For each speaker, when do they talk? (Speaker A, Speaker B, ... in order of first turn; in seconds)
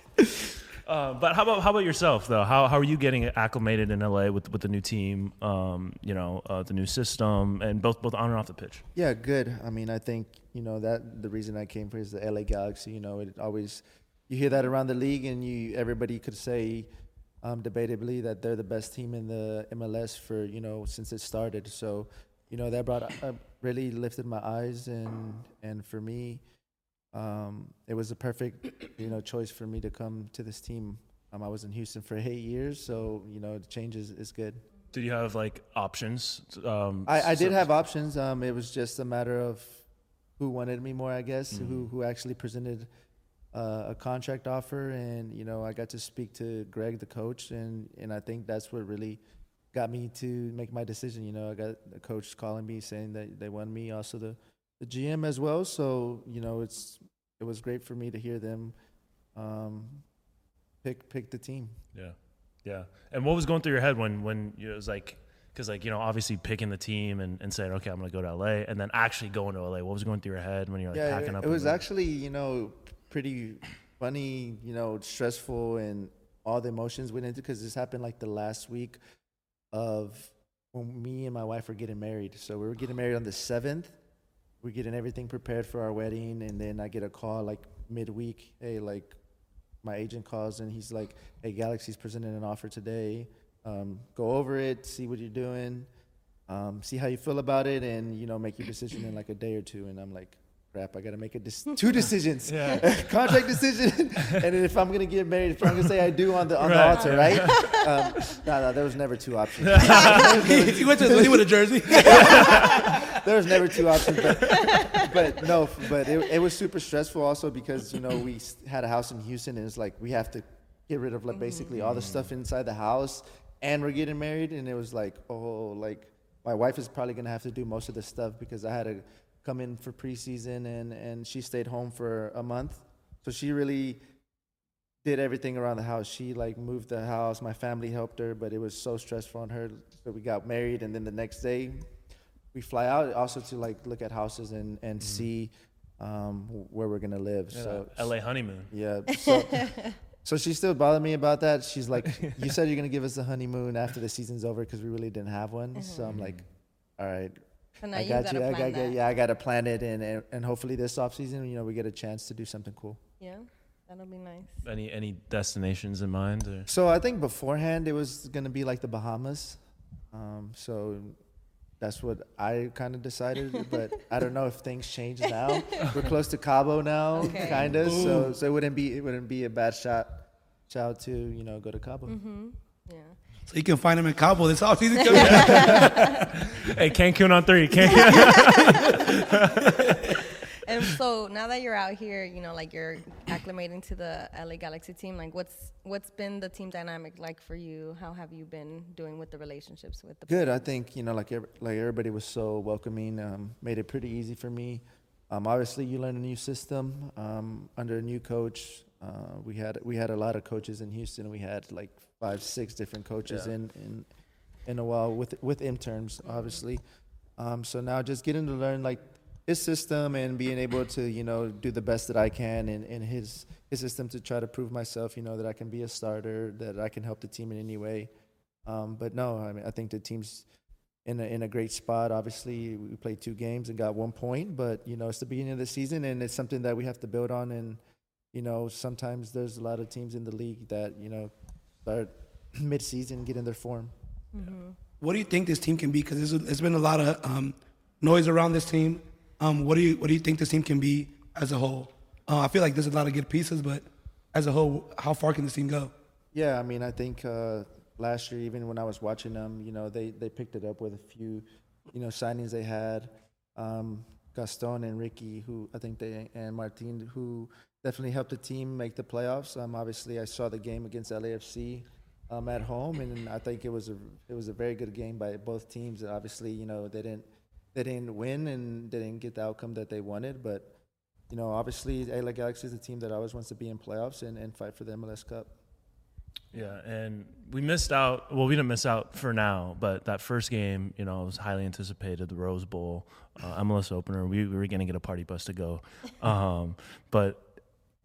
Speaker A: 0.8-8.8, 34.9-37.7, 41.5-41.8, 61.9-71.8, 102.5-103.1, 106.6-107.7, 109.6-110.5, 112.1-112.7, 121.8-122.3, 145.0-145.3, 147.5-148.7, 152.0-152.4, 156.1-156.4, 164.6-166.7, 185.1-185.8, 186.4-189.9, 286.5-297.4
Speaker B: 8.9-16.9, 17.4-26.4, 27.1-34.6, 37.0-39.8, 40.4-42.9, 43.5-49.2, 49.7-58.7, 59.3-60.0, 60.8-61.8, 70.9-79.0, 79.7-83.9, 84.6-89.2, 89.8-95.9, 96.5-134.0, 135.0-141.9, 142.5-148.1, 148.7-156.4, 157.0-157.3, 157.9-163.0, 166.7-169.6, 170.1-171.2, 171.8-182.2, 200.3-214.1, 214.7-216.8, 217.4-228.1, 228.6-230.4, 231.0-237.8, 238.3-241.3, 241.8-243.9, 256.3-280.7, 281.3-285.5
Speaker C: 107.0-108.3, 109.9-110.2, 112.5-112.8, 114.3-115.2, 121.4-121.7, 149.1-150.0, 155.8-156.1, 157.8-159.0, 163.2-164.6, 175.5-176.0, 177.2-177.7, 182.1-183.2, 185.0-186.4, 187.9-189.2, 190.0-200.7, 244.3-244.7
Speaker D: 110.2-113.2, 177.8-178.3, 183.5-186.3, 245.0-255.9